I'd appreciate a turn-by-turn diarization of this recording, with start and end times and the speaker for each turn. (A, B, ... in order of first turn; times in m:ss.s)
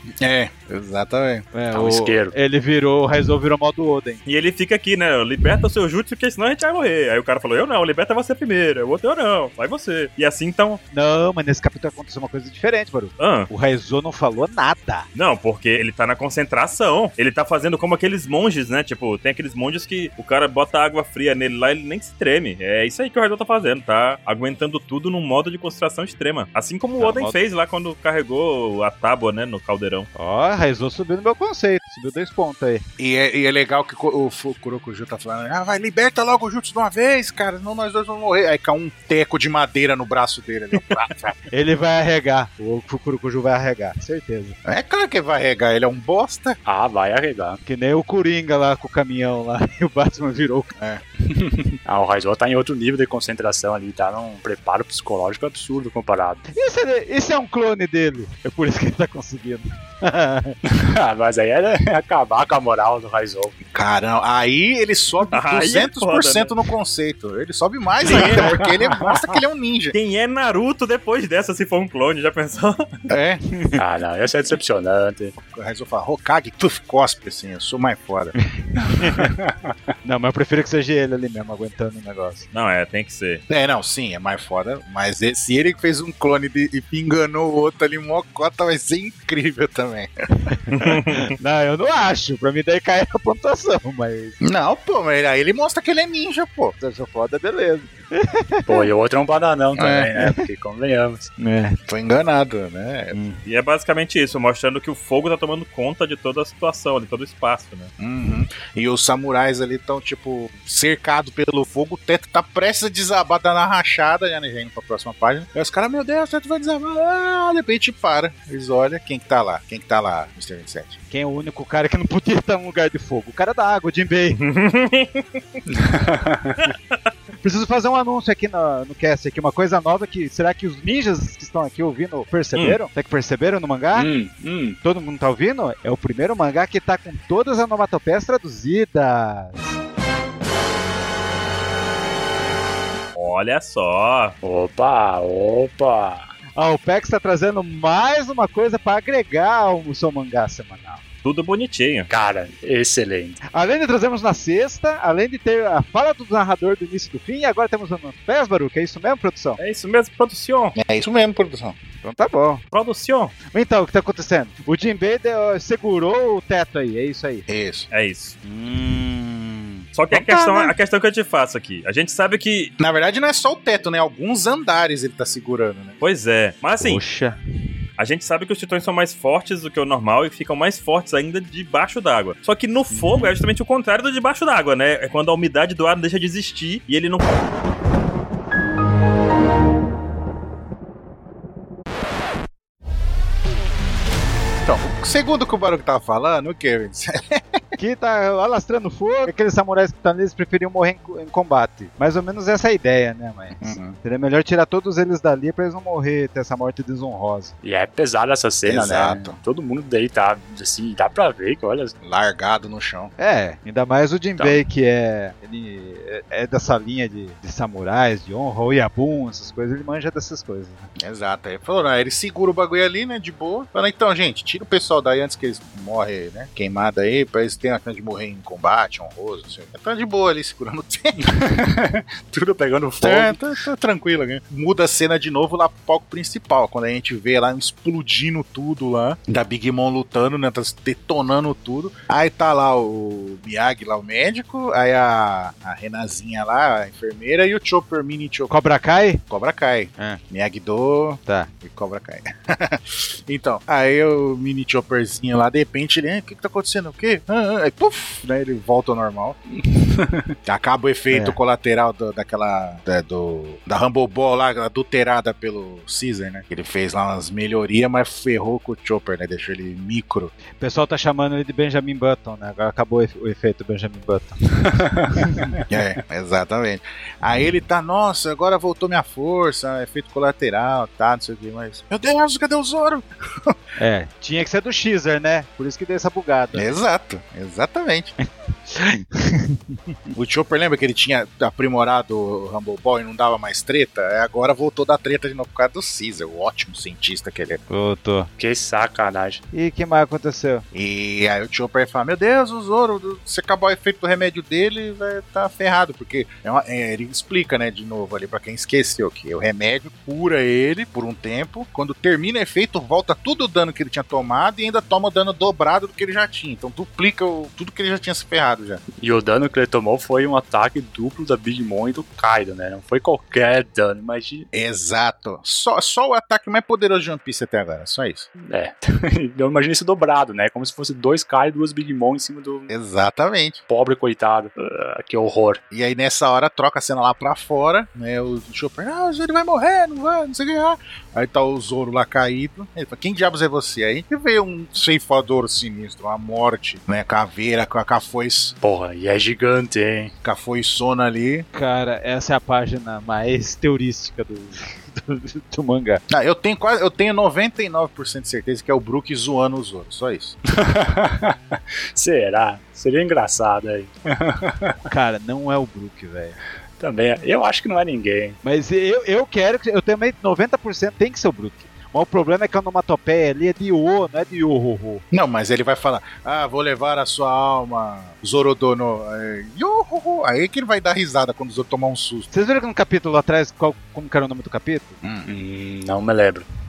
0:00.2-0:01.5 A
0:01.5-0:04.2 B
0:01.7-0:02.4 C
0:04.3-0:10.8 D
0:10.9-0:15.1 B
0:13.2-0:13.5 D
0:15.2-0:30.1 D
0:27.0-0:27.4 B
0:30.2-0:32.8 B
0:33.0-0:41.4 A
0:41.5-0:44.6 B
0:44.6-0:46.6 A
0:46.6-0:47.6 C
0:47.6-0:50.7 B
0:50.8-0:51.0 A
0:51.3-0:56.4 C
0:56.6-1:00.6 B
1:00.7-1:03.6 C
1:03.7-1:10.0 A
1:05.3-1:06.5 D
1:08.0-1:08.6 D
1:08.1-1:09.2 C
1:09.9-1:12.9 D
1:13.1-1:13.4 A
1:13.8-1:15.4 C
1:15.4-1:18.3 A
1:18.4-1:19.3 B
1:19.0-1:19.6 C
1:20.0-1:22.5 B
1:22.5-1:23.4 D
1:23.5-1:30.5 A
1:30.7-1:34.4 B
1:30.7-1:31.3 D
1:34.4-1:36.8 A
1:36.8-1:38.9 B
1:38.7-1:41.3 C
1:39.8-1:40.2 A
1:41.4-1:41.8 B
1:41.9-1:43.2 A
1:43.1-1:43.4 B
1:43.4-1:47.9 D
1:48.0-2:01.0 A
2:01.1-2:04.4 B
2:04.4-2:05.2 D
2:05.7-2:06.6 C
2:06.6-2:07.0 D
2:07.4-2:14.1 B
2:14.0-2:14.8 C
2:14.8-2:19.8 B
2:23.2-2:24.4 D
2:24.4-2:26.3 C
2:26.6-2:31.0 B
2:31.2-2:32.1 D
2:32.1-2:33.4 C
2:33.5-2:39.6 B
2:39.6-2:40.8 D
2:40.8-2:41.8 A
2:42.0-2:42.6 B
2:42.7-2:43.4 D
2:43.5-2:47.5 B
2:47.5-2:47.9 A
2:47.9-2:48.4 D
2:48.4-2:50.8 B
2:49.9-2:52.7 D
2:52.8-2:56.0 A
2:56.0-2:57.0 D
2:56.8-2:57.4 B
2:58.0-3:07.4 D
3:14.6-3:17.4 A
3:17.8-3:27.5 B
3:23.6-3:24.0 A
3:27.6-3:32.0 C
3:28.7-3:29.4 A
3:32.0-3:33.1 A
3:33.2-3:40.9 B
3:41.0-3:51.2 A
3:51.2-3:53.4 C
3:53.0-4:08.5 A
4:08.5-4:09.2 B
4:09.3-4:19.4 A
4:11.3-4:11.5 B
4:19.6-4:20.3 C
4:20.5-4:30.3 A
4:21.1-4:21.4 B
4:30.6-4:35.5 B
4:35.7-4:43.6 A
4:43.8-4:46.7 B
4:46.5-4:48.1 A
4:48.2-4:49.6 B
4:50.1-4:57.6 A
4:57.7-4:58.3 B
4:58.4-4:59.4 C
4:59.5-5:00.6 B
5:00.7-5:18.8 A
5:19.0-5:24.5 C
5:24.5-5:28.3 A
5:28.5-5:32.7 C
5:32.7-5:33.6 A
5:33.7-5:35.6 C
5:35.7-5:48.6 A
5:48.6-5:50.2 C
5:50.2-5:51.5 A
5:51.5-5:56.0 B
5:56.1-6:00.4 A
6:00.5-6:04.8 C
6:04.9-6:06.4 B
6:06.8-6:08.4 C
6:08.4-6:15.0 B
6:15.1-6:22.3 A
6:22.3-6:25.0 B
6:25.0-6:25.3 A
6:25.3-6:26.5 C